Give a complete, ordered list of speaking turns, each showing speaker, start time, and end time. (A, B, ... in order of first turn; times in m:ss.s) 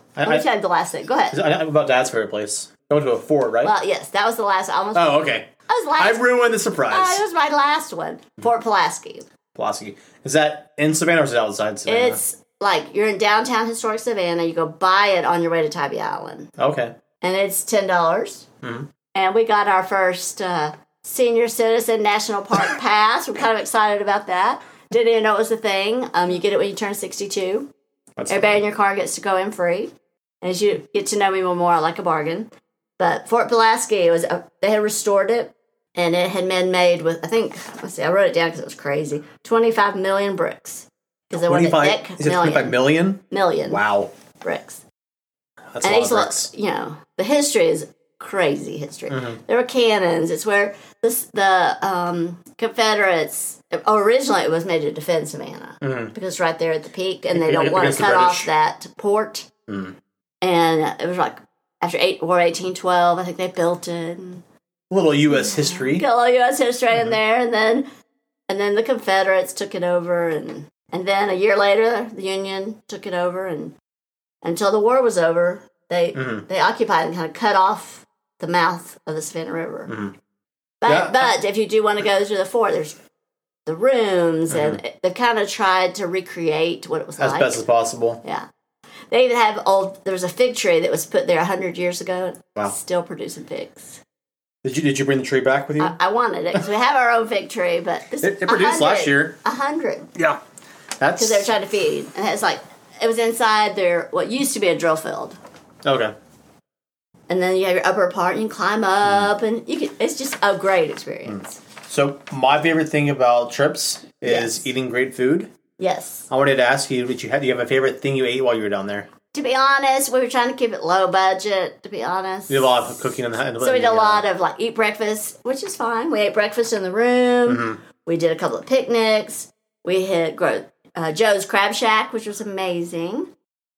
0:00.2-0:00.4 A
0:00.2-0:01.4 B
0:01.3-0:03.7 A
0:03.6-0:06.2 B
0:04.9-0:07.2 A
0:06.9-0:09.2 B
0:09.5-0:12.2 A
0:11.9-0:16.5 B
0:16.6-0:16.9 A
0:17.2-0:18.5 B
0:18.6-0:18.9 A
0:19.1-0:27.7 B
0:28.2-0:28.6 A
0:28.3-0:29.9 B
0:30.4-0:42.8 B
0:41.3-0:44.1 A
0:43.3-0:43.8 B
0:44.4-0:44.8 B
0:45.7-0:46.5 A
0:45.8-0:59.5 B
0:49.1-0:49.4 A
0:55.8-0:56.1 A
0:57.3-0:58.5 A
0:59.7-1:00.0 A
1:00.4-1:04.4 B
1:04.9-1:06.0 A
1:05.3-1:07.9 B
1:08.5-1:13.7 B
1:14.4-1:19.9 B
1:16.1-1:16.4 A
1:19.9-1:20.1 A
1:20.8-1:23.0 B
1:20.9-1:21.3 A
1:23.6-1:27.6 B
1:24.5-1:24.8 A
1:27.2-1:28.2 A
1:29.1-1:34.0 B
1:34.6-1:36.0 A
1:35.8-1:40.1 B
1:38.2-1:39.4 A
1:41.0-1:41.5 A
1:41.2-1:45.4 B
1:45.8-1:46.1 A
1:47.3-1:51.6 B
1:51.3-1:55.5 A
1:54.2-1:54.7 B
1:55.8-1:56.3 B
1:56.3-1:59.1 A
1:59.3-2:03.0 B
2:02.5-2:04.2 A
2:03.6-2:13.3 B
2:07.5-2:07.8 A